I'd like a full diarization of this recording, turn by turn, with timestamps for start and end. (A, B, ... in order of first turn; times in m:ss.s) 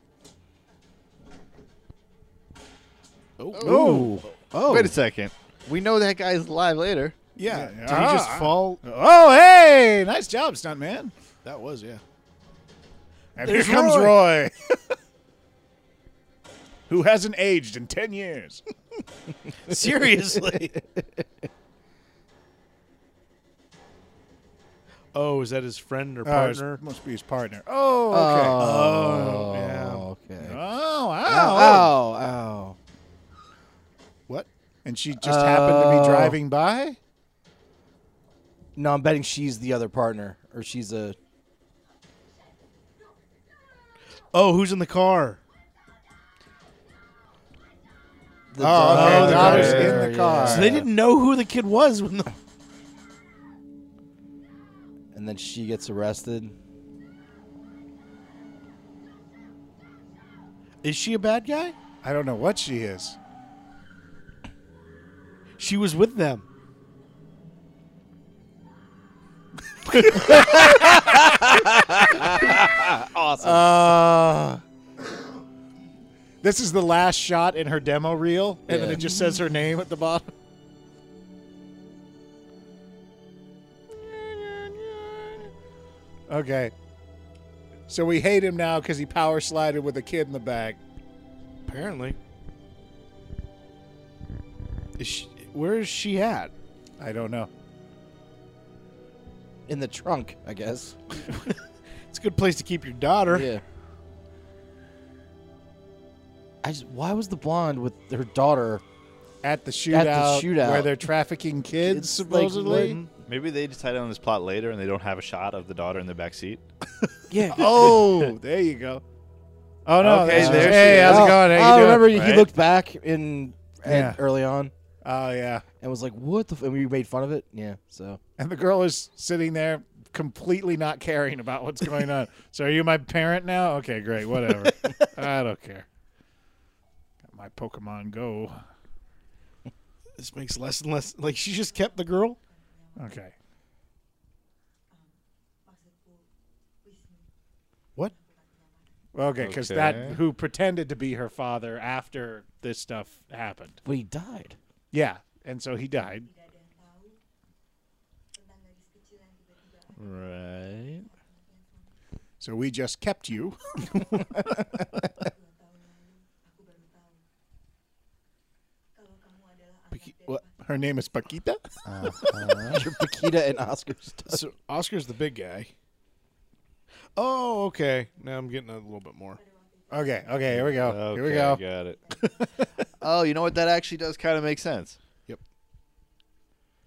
0:03.4-0:05.0 A
0:03.6-0:04.0 B
0:03.6-0:04.2 C
0:03.6-0:04.2 D
0:04.6-0:07.2 B
0:07.4-0:08.8 A
0:07.4-0:11.1 D
0:11.4-0:12.0 A
0:13.4-0:14.5 D
0:13.4-0:14.2 A
0:16.9-0:18.6 D
0:19.6-0:20.8 A
0:20.5-0:21.2 C
0:25.1-0:26.8 A
0:26.2-0:28.6 D
0:28.1-0:30.6 C
0:28.6-0:30.1 A
0:30.4-0:32.0 D
0:31.2-0:32.8 C
0:34.8-0:37.0 D
0:35.2-0:36.4 C
0:38.8-0:41.2 C
0:44.3-0:45.4 A
0:48.5-0:50.9 C
0:48.6-0:50.8 D
0:48.8-0:52.3 A
0:55.1-0:56.5 C
1:00.8-1:01.7 A
1:02.0-1:03.2 D
1:05.6-1:06.4 A
1:10.1-1:13.6 C
1:10.2-1:11.3 D
1:13.4-1:14.6 D
1:16.4-1:20.3 D
1:18.7-1:19.4 C
1:23.9-1:25.5 D
1:26.3-1:26.7 D
1:27.9-1:30.8 D
1:31.7-1:32.2 A
1:35.0-1:36.5 A
1:37.0-1:37.5 D
1:39.7-1:41.0 C
1:42.1-1:43.5 A
1:43.3-1:43.6 C
1:46.6-1:48.8 C
1:49.4-1:53.0 D
1:49.9-1:51.1 C
1:51.8-1:53.0 C
1:52.7-1:53.1 A
1:53.2-1:56.6 B
1:57.3-1:58.1 C
1:57.5-1:59.0 D
1:59.8-2:02.4 D
2:00.0-2:01.5 B
2:00.3-2:04.7 C
2:02.1-2:02.4 B
2:03.8-2:04.2 D
2:05.0-2:05.6 D
2:05.8-2:08.2 C
2:08.4-2:15.8 D
2:17.2-2:18.6 D
2:20.2-2:22.4 A
2:23.0-2:23.3 D
2:29.1-2:33.8 D
2:29.4-2:30.2 B
2:33.8-2:34.6 C
2:34.9-2:36.3 D
2:39.9-2:41.1 B
2:42.4-2:44.2 D
2:49.9-2:50.4 A
2:50.6-2:52.7 D
2:51.9-2:52.8 B
2:52.3-2:54.4 C
2:54.3-2:55.7 A
2:57.2-2:59.4 A
2:59.9-3:01.6 D
3:00.5-3:02.0 B
3:02.2-3:02.6 D
3:03.0-3:05.0 B